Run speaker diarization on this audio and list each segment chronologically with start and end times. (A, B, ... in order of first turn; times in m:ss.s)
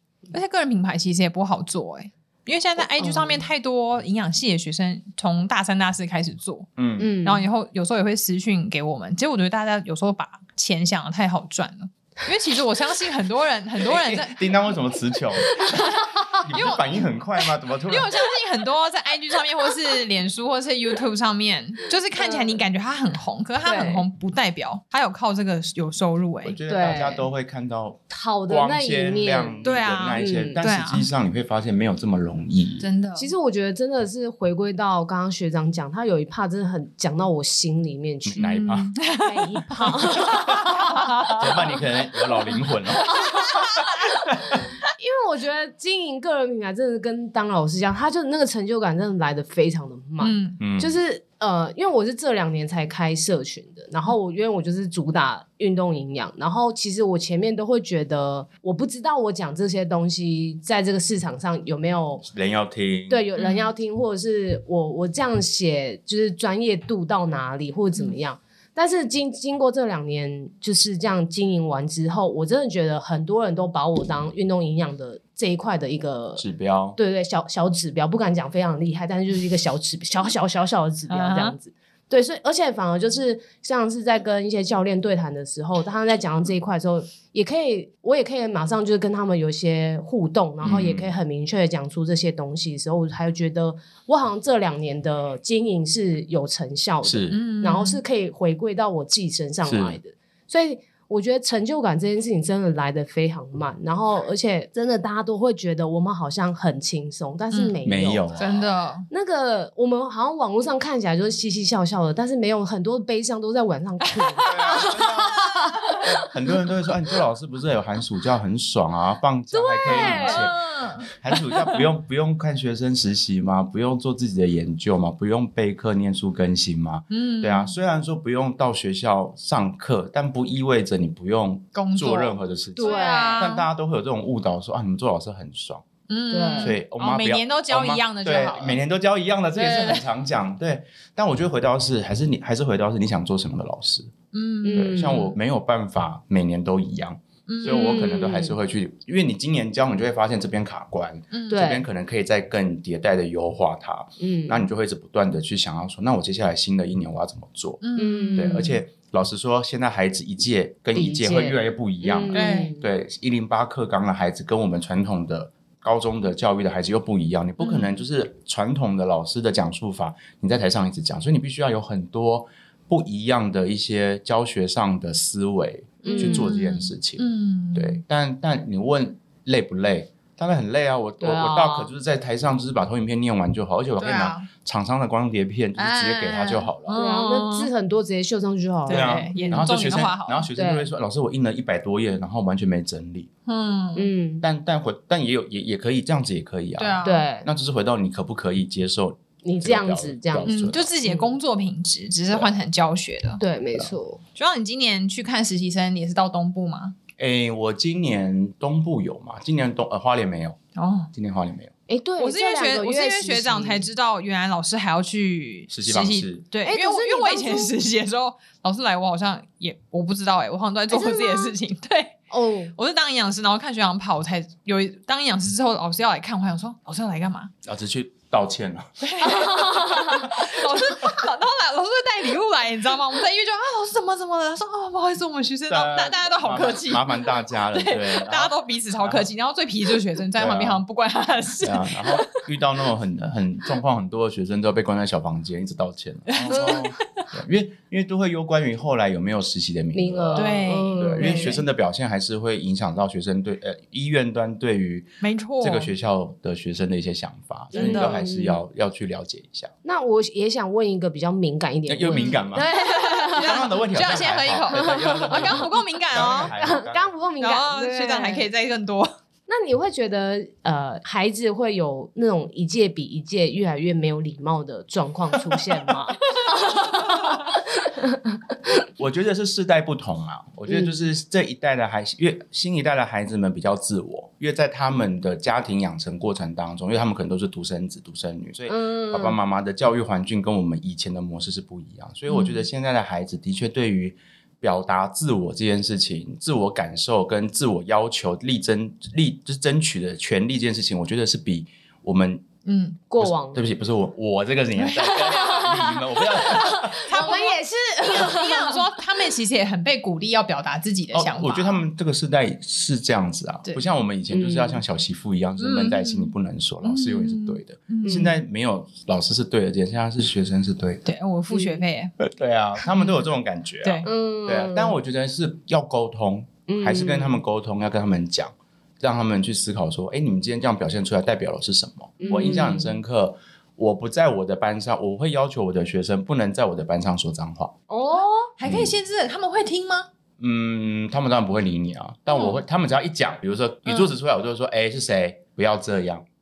0:00.3-0:06.7 A
0:03.0-0:03.4 B
0:06.8-0:07.1 C
0:07.0-0:07.4 B
0:07.2-0:14.6 A
0:13.8-0:18.1 C
0:15.5-0:16.4 B
0:15.7-0:17.0 A
0:17.8-0:26.6 A
0:22.2-0:22.6 B
0:23.6-0:24.0 B
0:26.4-0:32.9 C
0:26.7-0:27.3 B
0:28.1-0:30.6 B
0:29.6-0:31.1 A
0:32.8-0:33.3 A
0:33.2-0:38.6 B
0:38.2-0:38.9 C
0:38.4-0:41.4 A
0:39.1-0:41.4 B
0:40.1-0:44.6 C
0:43.1-1:02.2 B
0:43.1-0:43.8 A
0:50.2-0:50.6 A
0:50.6-0:50.9 C
1:02.2-1:03.2 C
1:03.1-1:16.4 B
1:03.4-1:03.7 A
1:16.4-1:17.0 C
1:17.0-1:48.3 B
1:21.1-1:21.5 A
1:30.6-1:31.1 C
1:37.0-1:37.4 C
1:37.3-1:38.0 A
1:39.6-1:40.0 C
1:47.5-1:47.8 A
1:47.8-1:48.6 C
1:48.4-1:49.1 A
1:49.1-1:56.1 B
1:54.2-1:56.0 A
1:54.4-1:55.4 C
1:56.0-2:15.8 C
1:59.5-2:00.5 B
1:59.8-2:01.9 A
2:07.1-2:07.8 A
2:11.7-2:13.7 A
2:12.8-2:13.5 B
2:16.1-2:18.8 A
2:16.3-2:16.8 B
2:16.6-2:24.1 C
2:19.6-2:20.0 A
2:24.3-2:25.2 A
2:24.6-2:25.3 B
2:24.7-2:37.8 C
2:27.5-2:28.1 A
2:27.6-2:28.6 B
2:31.3-2:31.6 A
2:31.5-2:31.8 B
2:34.2-2:34.7 B
2:37.8-2:38.7 A
2:38.0-2:38.8 B
2:38.3-3:07.0 C
2:40.9-2:42.9 B
2:42.3-2:42.7 A
2:47.6-2:47.9 A
2:56.0-2:56.5 B
2:56.1-2:58.0 A
3:01.2-3:01.9 B
3:04.0-3:04.5 A
3:05.8-3:07.7 A
3:06.9-3:09.7 B
3:08.9-3:10.5 A
3:08.9-3:13.3 C
3:10.5-3:10.9 B
3:13.4-3:14.1 A
3:13.9-3:14.4 B
3:14.4-3:20.9 C
3:16.8-3:17.2 A
3:17.0-3:17.5 B
3:19.4-3:21.3 B
3:20.4-3:23.4 A
3:23.4-3:24.2 B
3:24.4-3:27.0 A
3:27.2-3:30.6 C
3:30.8-3:31.1 A
3:31.1-3:31.7 C
3:31.9-3:33.8 B
3:32.2-3:47.5 A
3:35.7-3:36.4 C
3:36.6-3:37.7 B
3:40.9-3:41.5 B
3:42.3-3:42.7 B
3:47.6-3:49.0 C
3:49.0-4:02.5 A
3:49.2-3:50.3 B
3:50.2-3:50.5 C
3:55.7-3:59.3 C
4:00.4-4:00.8 C
4:01.6-4:19.7 C
4:06.3-4:07.2 A
4:09.9-4:11.6 B
4:10.3-4:11.6 A
4:15.2-4:15.9 A
4:17.7-4:18.2 A
4:17.7-4:18.6 B
4:19.8-4:23.6 B
4:21.9-4:22.7 C
4:22.1-4:26.5 A
4:23.3-4:27.1 C
4:24.7-4:25.7 B
4:26.2-4:28.4 B
4:27.4-4:29.1 A
4:29.5-4:38.4 B
4:39.0-5:02.5 C
4:40.7-4:40.9 B
4:48.7-4:49.4 B
4:52.3-4:52.6 A
5:02.6-5:03.0 A
5:03.1-5:03.6 B
5:03.2-5:07.3 C
5:04.8-5:11.8 A
5:05.0-5:08.8 B
5:11.1-5:21.0 C
5:14.3-5:14.8 B
5:15.6-5:18.3 A
5:18.0-5:18.3 B
5:21.0-5:22.1 A
5:21.5-5:21.8 B
5:22.2-5:37.7 C
5:22.8-5:23.2 A
5:23.8-5:24.1 A
5:24.0-5:25.0 B
5:26.7-5:27.4 B
5:32.2-5:32.9 B
5:37.9-5:38.5 B
5:38.6-5:40.1 A
5:38.6-5:38.9 C
5:40.4-5:46.2 C